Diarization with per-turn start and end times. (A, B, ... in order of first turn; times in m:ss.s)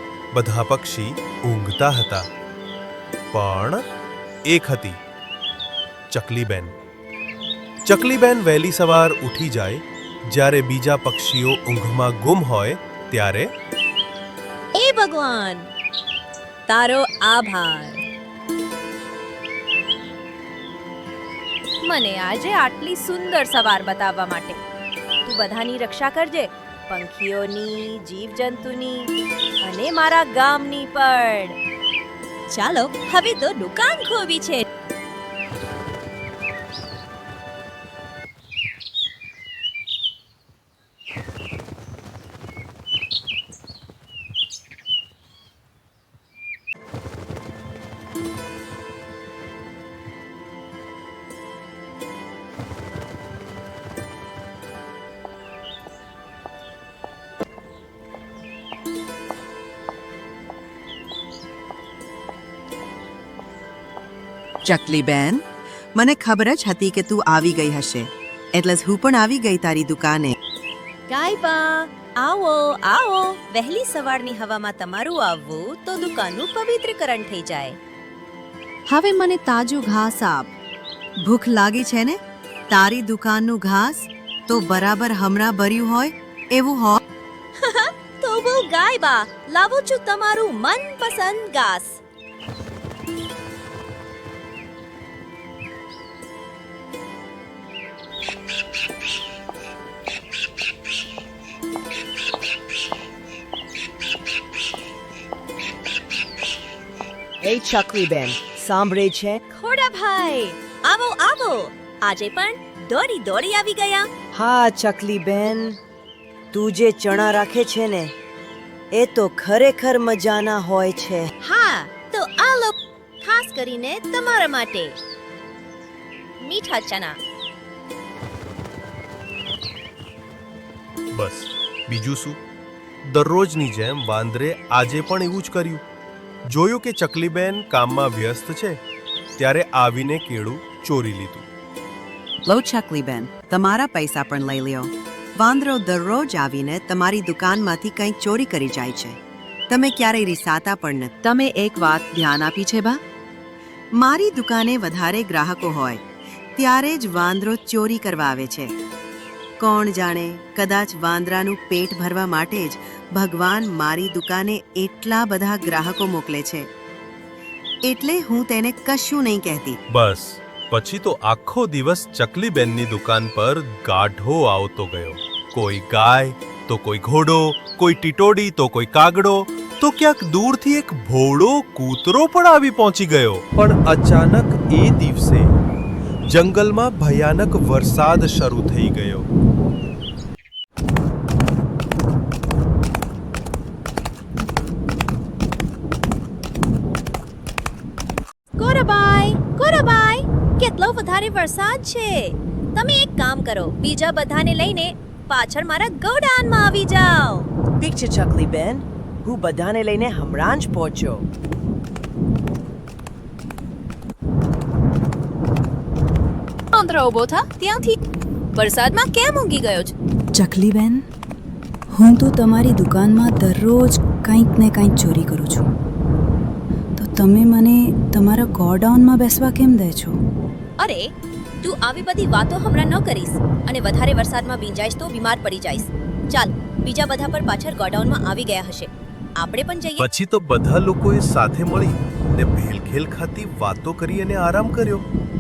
0:00.3-0:02.2 A
0:03.3-0:03.8 A
0:04.5-0:05.0 A
0:06.1-0:06.7 A
0:07.8-0:13.5 A
0:14.7-0:15.7 B
0:16.7-0:18.0 B
0:21.8-0:24.6 B
0:25.2-0:29.1 B
0:29.6-0:31.6 B
0:32.5-0:34.6 B
1:04.6-1:05.4 C
1:06.0-1:10.3 C
1:11.1-1:17.8 B
1:18.9-1:20.5 C
1:21.2-1:22.2 C
1:22.7-1:27.0 C
1:27.6-1:32.0 B
1:47.4-1:49.4 D
1:49.5-1:54.1 B
1:54.3-1:55.8 D
1:56.5-1:58.1 D
1:58.9-2:01.3 D
2:01.4-2:05.0 B
2:06.4-2:07.2 B
2:11.1-2:12.4 A
2:13.0-2:15.8 A
2:16.5-2:18.8 A
2:19.4-2:21.5 A
2:22.4-2:33.0 C
2:34.0-2:36.0 C
2:36.6-2:38.7 C
2:39.6-2:46.7 C
2:47.9-2:49.8 C
2:49.9-3:05.5 A
3:06.3-3:09.3 A
3:18.6-3:27.5 B
3:27.8-3:31.2 D
3:36.7-3:38.0 B
3:38.5-3:39.9 B
3:40.3-3:41.0 E
3:41.9-3:45.7 E
3:47.0-3:50.2 E
3:50.8-3:51.1 B
3:51.6-4:00.0 B
4:00.0-4:05.0 A